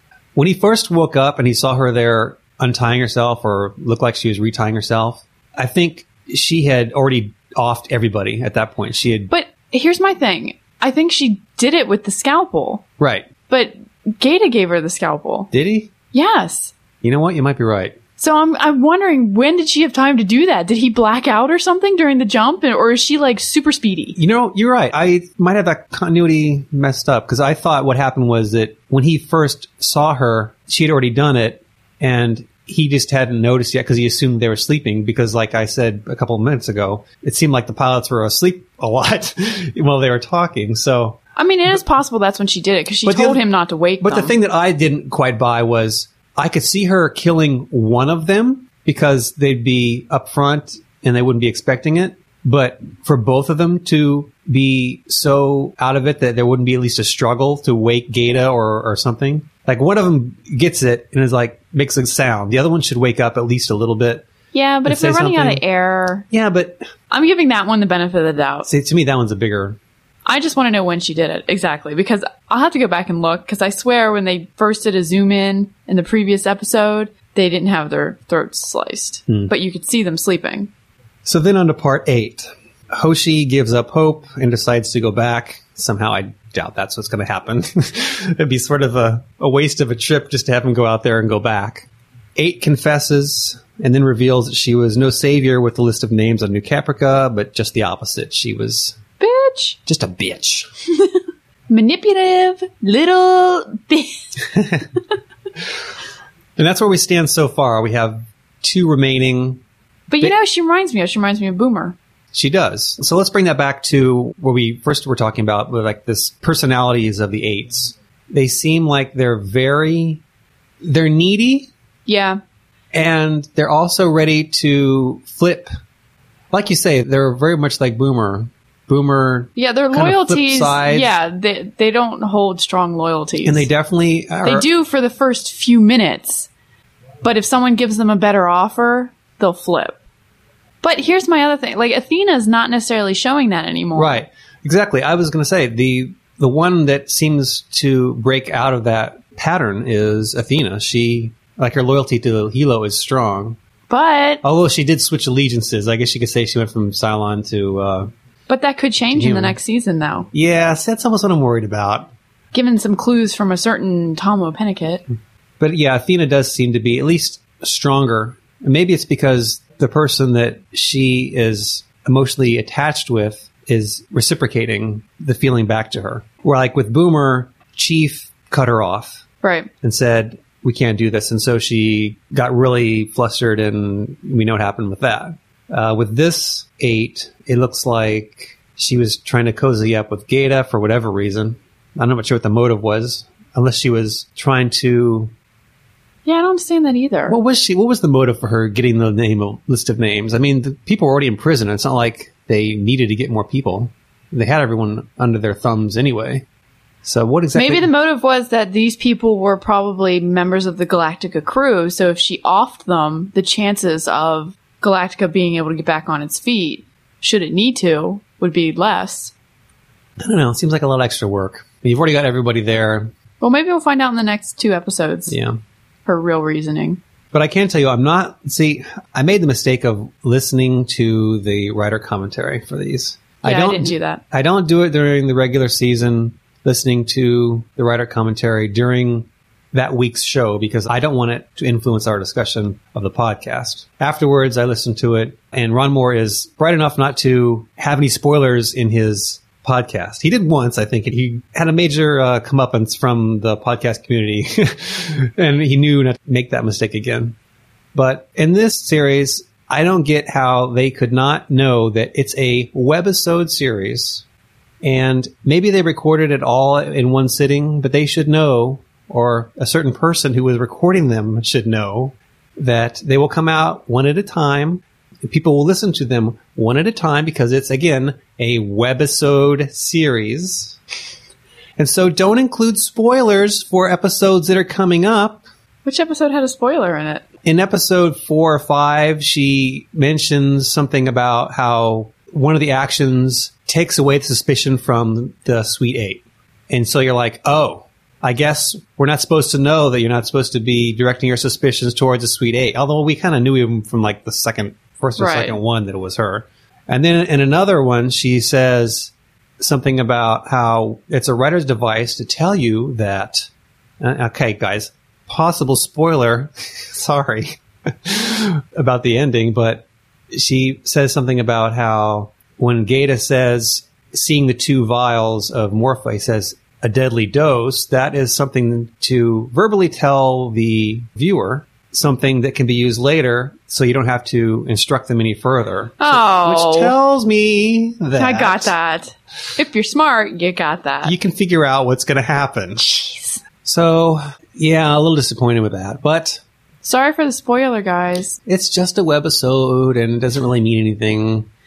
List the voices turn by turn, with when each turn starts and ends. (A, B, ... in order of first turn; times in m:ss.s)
0:00.4-0:09.3 A
0:09.3-0:12.8 B
0:13.0-0:13.3 A
0:13.5-0:15.5 B
0:15.5-0:15.9 A
0:16.1-0:16.7 B
0:17.0-0:18.0 A
0:18.2-0:24.2 B
0:24.2-0:41.2 A
0:41.4-0:44.3 B
0:43.1-0:43.4 A
0:44.0-1:04.3 A
1:04.5-1:06.2 B
1:04.8-1:05.6 A
1:06.3-1:06.8 A
1:07.1-1:08.7 B
1:08.6-1:09.8 A
1:10.3-1:20.7 B
1:21.2-1:39.0 A
1:39.2-1:39.8 B
1:39.9-1:40.7 A
1:41.7-1:44.4 B
1:44.5-1:44.8 A
1:46.6-1:49.6 A
1:50.1-1:52.0 B
1:52.3-2:00.2 A
2:00.8-2:01.7 A
2:02.1-2:02.4 B
2:02.9-2:05.7 A
2:06.5-2:11.1 A
2:09.6-2:13.7 B
2:13.4-2:14.7 A
2:14.4-2:16.5 B
2:17.2-2:20.0 B
2:20.8-2:24.2 B
2:23.9-2:33.6 A
2:33.9-2:34.4 B
2:34.4-2:38.1 A
2:38.5-2:40.3 B
2:39.1-2:39.6 A
2:40.3-2:42.1 A
2:42.5-2:45.0 B
2:45.6-2:59.2 A
2:59.4-2:59.7 B
2:59.8-3:15.3 A
3:16.2-3:17.4 B
3:17.3-3:26.4 A
3:27.0-3:27.9 A
3:27.6-3:39.3 B
3:40.2-3:43.1 A
3:43.4-3:45.4 B
3:45.3-3:45.6 A
3:46.1-3:47.0 B
3:47.3-4:17.4 A
3:53.4-3:54.2 B
4:17.9-4:24.2 A
4:24.8-4:40.8 A
4:41.8-4:45.4 A
4:45.8-4:47.2 B
4:47.4-5:13.5 A
5:05.2-5:05.6 B
5:14.0-5:38.7 A
5:36.0-5:36.9 B
5:38.2-5:41.2 B
5:41.0-5:42.8 A
5:42.8-5:43.4 B
5:43.6-5:46.4 A
5:46.8-5:48.4 B
5:48.5-5:51.5 A